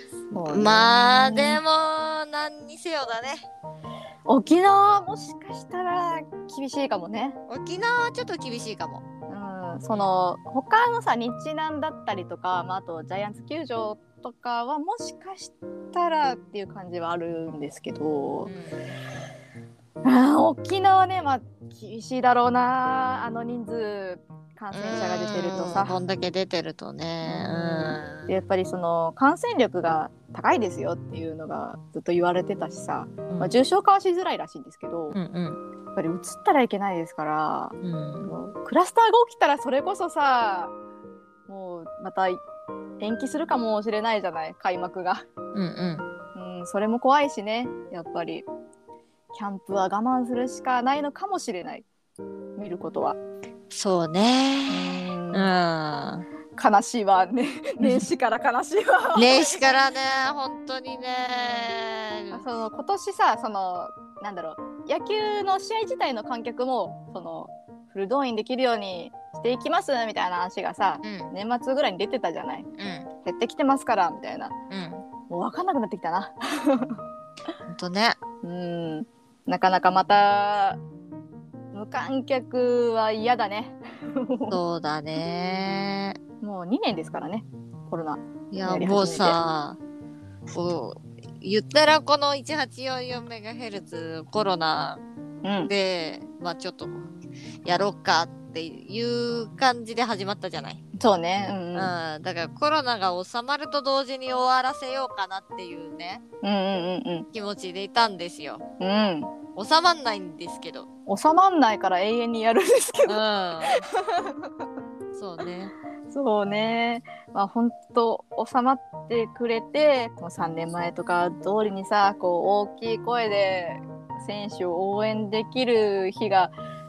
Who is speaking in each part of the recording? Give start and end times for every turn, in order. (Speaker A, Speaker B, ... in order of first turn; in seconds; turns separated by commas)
Speaker A: 0.3-1.6, Speaker B: 0.3-3.5, Speaker A: 4.3-7.4, Speaker B: 7.5-9.0, Speaker A: 9.3-18.5, Speaker B: 18.4-18.9, Speaker A: 20.0-26.0, Speaker B: 24.7-28.3, Speaker A: 27.2-35.2, Speaker B: 35.1-35.6, Speaker A: 36.0-40.7, Speaker B: 37.8-38.3, Speaker A: 41.5-42.4, Speaker A: 43.0-45.2, Speaker B: 45.5-46.1, Speaker A: 46.4-48.5, Speaker A: 49.3-51.9, Speaker A: 52.6-53.2, Speaker B: 53.7-56.3, Speaker A: 54.7-55.5, Speaker A: 56.6-59.7, Speaker B: 59.1-62.5, Speaker A: 62.3-72.7, Speaker B: 71.0-71.3, Speaker B: 72.8-73.1, Speaker A: 73.2-74.5, Speaker B: 74.7-75.0, Speaker A: 75.3-77.0, Speaker B: 77.7-78.2, Speaker A: 78.4-80.8, Speaker A: 81.7-84.6, Speaker B: 84.5-86.2, Speaker A: 86.4-89.4, Speaker B: 88.5-89.8, Speaker B: 90.5-95.0, Speaker A: 95.4-95.7, Speaker B: 95.7-97.1, Speaker B: 97.7-100.8, Speaker A: 101.0-101.9, Speaker B: 101.7-106.2, Speaker A: 106.4-107.3, Speaker B: 107.3-108.7, Speaker A: 108.8-109.3, Speaker B: 109.6-110.9, Speaker A: 111.1-114.5, Speaker B: 113.1-113.8, Speaker B: 115.1-115.7, Speaker A: 116.1-126.5